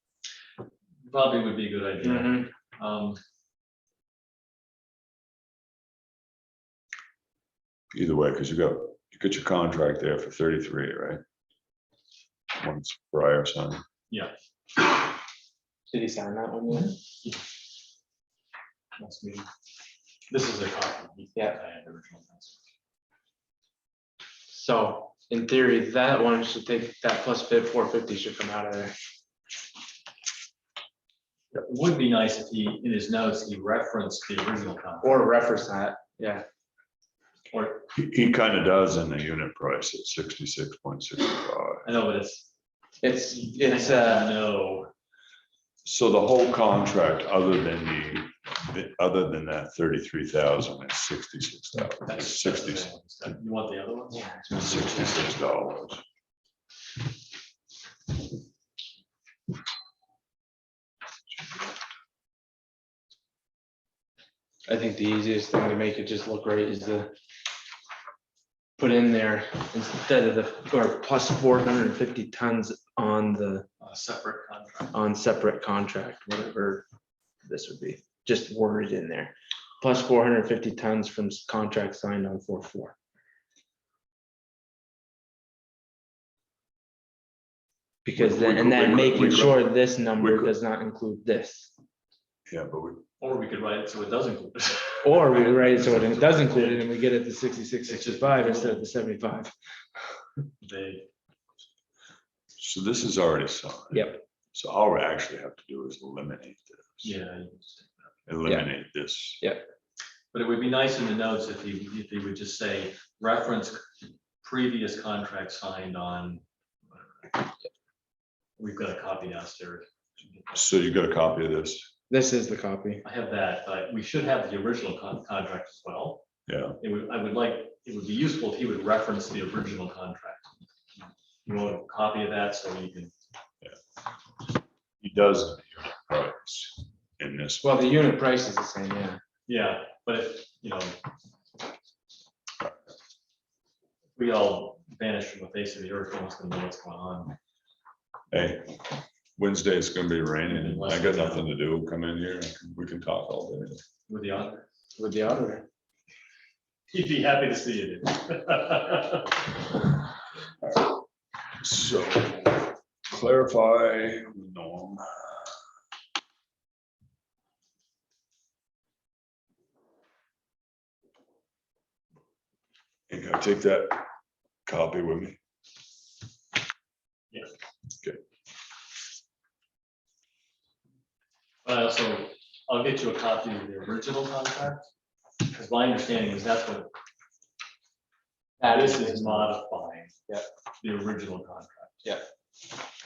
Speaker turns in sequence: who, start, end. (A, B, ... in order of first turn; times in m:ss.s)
0:01.0-0:03.2 A
0:02.0-0:02.4 B
0:07.9-0:11.2 C
0:12.6-0:13.8 C
0:14.1-0:14.3 A
0:15.9-0:16.9 B
0:16.7-0:17.4 A
0:19.0-0:19.5 A
0:20.3-0:22.6 A
0:24.5-0:28.9 B
0:31.5-0:35.2 A
0:35.0-0:36.4 B
0:37.5-0:37.9 A
0:37.9-0:41.8 C
0:41.8-0:42.5 A
0:43.0-0:44.4 B
0:43.4-0:44.9 A
0:45.8-0:52.9 C
0:52.0-0:54.3 A
0:54.1-0:55.1 B
0:54.5-0:56.0 C
1:04.7-1:07.1 B
1:08.8-1:13.7 B
1:13.8-1:14.9 A
1:14.9-1:16.8 B
1:17.4-1:22.9 B
1:28.0-1:31.7 B
1:28.2-1:29.7 C
1:30.2-1:30.5 C
1:32.5-1:33.0 C
1:33.2-1:36.9 A
1:35.0-1:39.5 B
1:37.8-1:38.9 A
1:40.6-1:41.1 A
1:42.6-1:47.1 C
1:43.9-1:44.2 B
1:47.0-1:47.9 A
1:48.3-1:49.4 C
1:48.4-1:48.7 B
1:50.3-1:53.9 A
1:54.4-1:57.4 A
1:58.6-2:00.6 A
2:00.5-2:01.9 C
2:02.1-2:03.0 B
2:03.0-2:06.2 A
2:06.5-2:06.8 C
2:06.8-2:10.5 A
2:11.4-2:13.1 A
2:15.0-2:17.7 C
2:17.6-2:19.2 B
2:19.5-2:21.0 A
2:24.2-2:27.3 A
2:28.3-2:28.8 C
2:29.4-2:33.8 C
2:30.5-2:31.5 A
2:34.1-2:34.6 A
2:35.0-2:35.6 B
2:36.9-2:39.5 A
2:41.6-2:45.5 C
2:53.1-2:54.0 C
2:54.7-2:55.4 C
3:01.6-3:04.9 A
3:05.4-3:06.9 A
3:08.6-3:09.6 B
3:08.6-3:10.1 A
3:10.8-3:12.0 A